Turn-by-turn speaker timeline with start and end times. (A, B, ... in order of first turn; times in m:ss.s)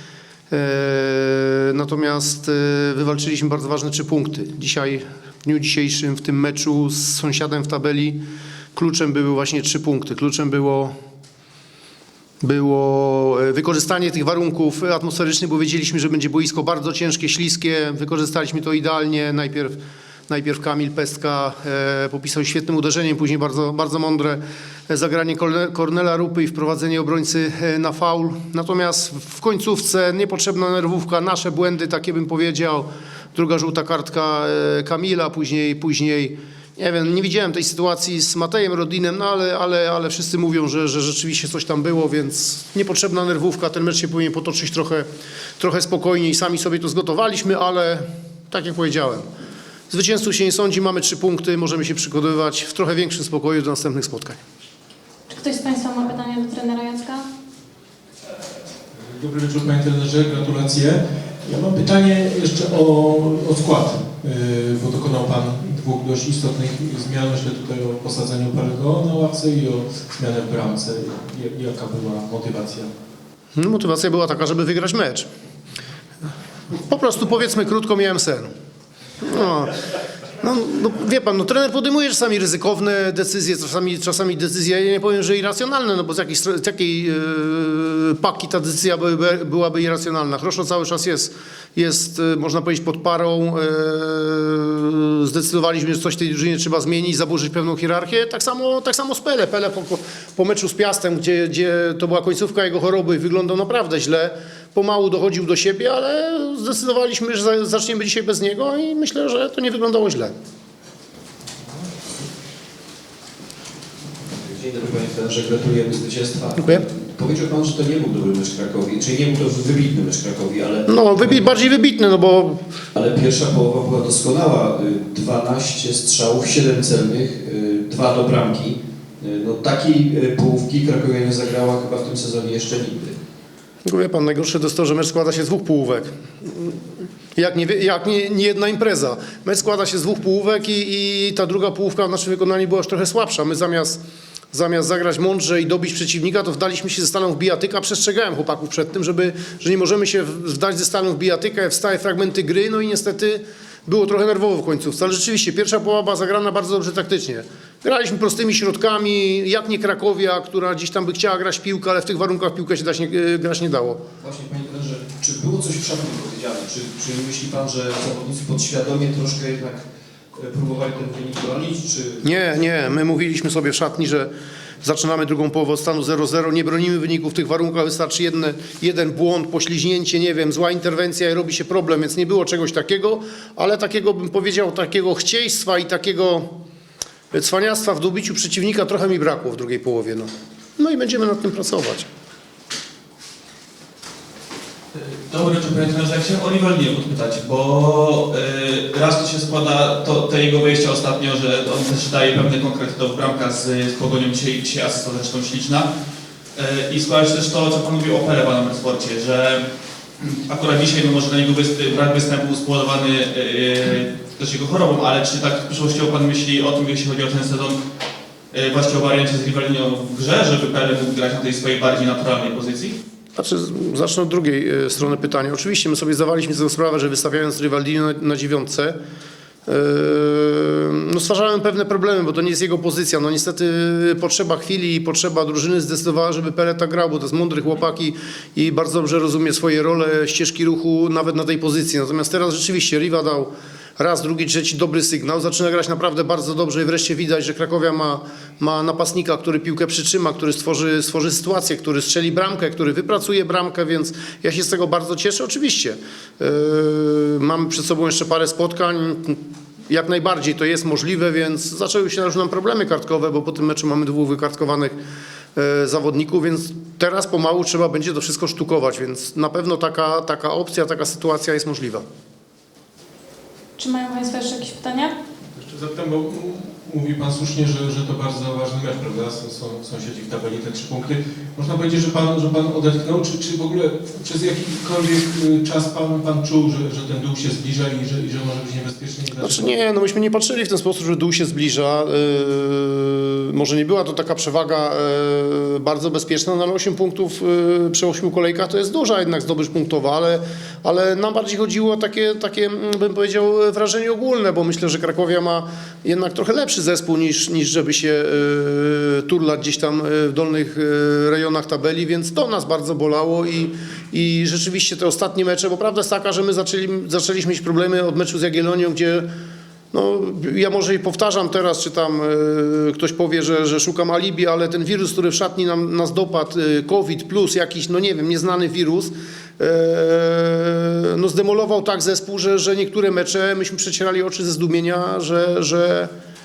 0:00.5-0:08.2 A
0:08.7-0:10.9 A
0:12.4-0:45.0 A
0:45.6-0:49.2 A
0:49.9-0:54.4 A
0:55.3-0:57.2 B
0:59.0-1:12.9 C
1:13.5-1:15.3 A
1:16.7-1:18.5 A
1:19.2-1:19.8 A
1:20.4-1:50.3 A
1:54.3-2:01.4 D
1:56.6-1:56.8 A
2:00.9-2:02.6 A
2:02.9-2:13.2 D
2:13.8-2:16.8 A
2:17.3-2:24.0 A
2:24.5-2:44.0 A
2:44.2-2:49.8 D
2:50.3-2:52.2 D
2:52.2-2:54.3 A
2:54.8-3:06.5 A
3:07.3-3:12.1 A
3:14.9-3:25.9 E
3:26.6-3:29.6 E
3:30.2-3:37.8 E
3:38.5-3:43.0 E
3:43.4-3:49.0 A
3:49.6-4:25.0 A
4:25.5-4:32.0 A
4:33.8-4:35.1 B
4:35.6-4:49.7 C
4:49.4-5:19.3 A
5:19.9-5:36.1 A